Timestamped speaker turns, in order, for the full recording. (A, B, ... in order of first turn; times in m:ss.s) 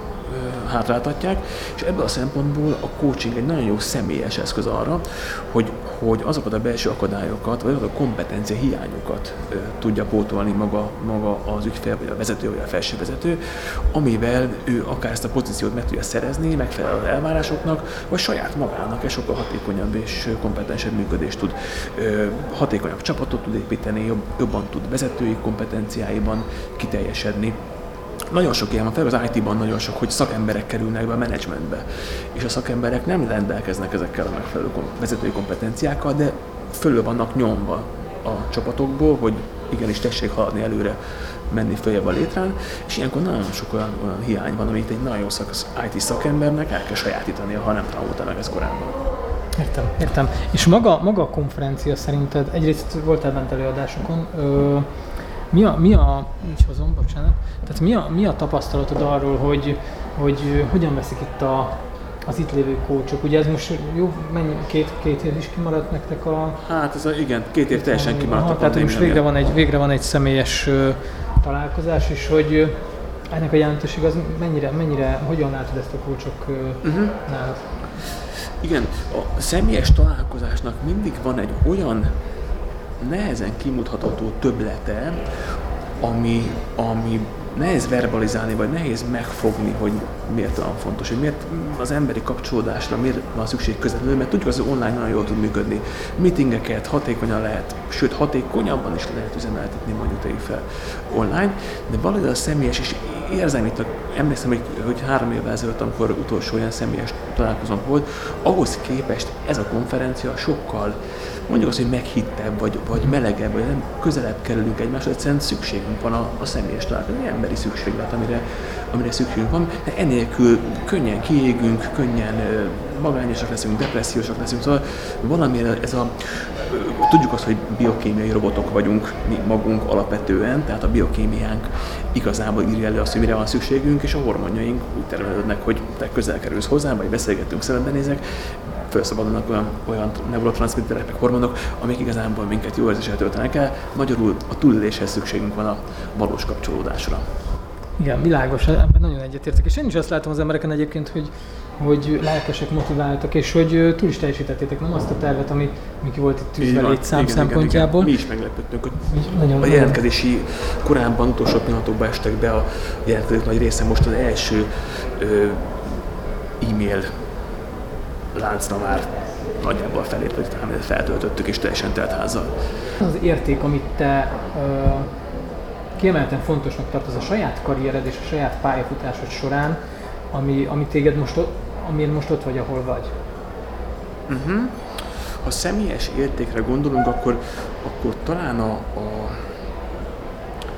0:00.2-0:27.6 A
0:28.3-0:41.0 A
0:41.5-0:49.0 A
0:49.6-0:54.9 B
0:55.5-1:06.6 B
1:06.6-1:09.2 A
1:07.7-1:12.8 B
1:13.3-1:17.6 B
1:16.8-1:17.2 A
1:18.4-1:22.2 A
1:23.0-1:25.2 A
1:26.0-1:51.0 A
1:51.5-2:27.3 A
2:28.0-2:38.1 B
2:36.6-2:45.8 A
2:39.1-2:40.0 B
2:46.6-2:47.1 A
2:48.3-2:52.5 A
2:53.0-2:55.1 B
2:56.0-2:59.8 B
3:00.3-3:03.1 B
3:04.3-3:09.5 A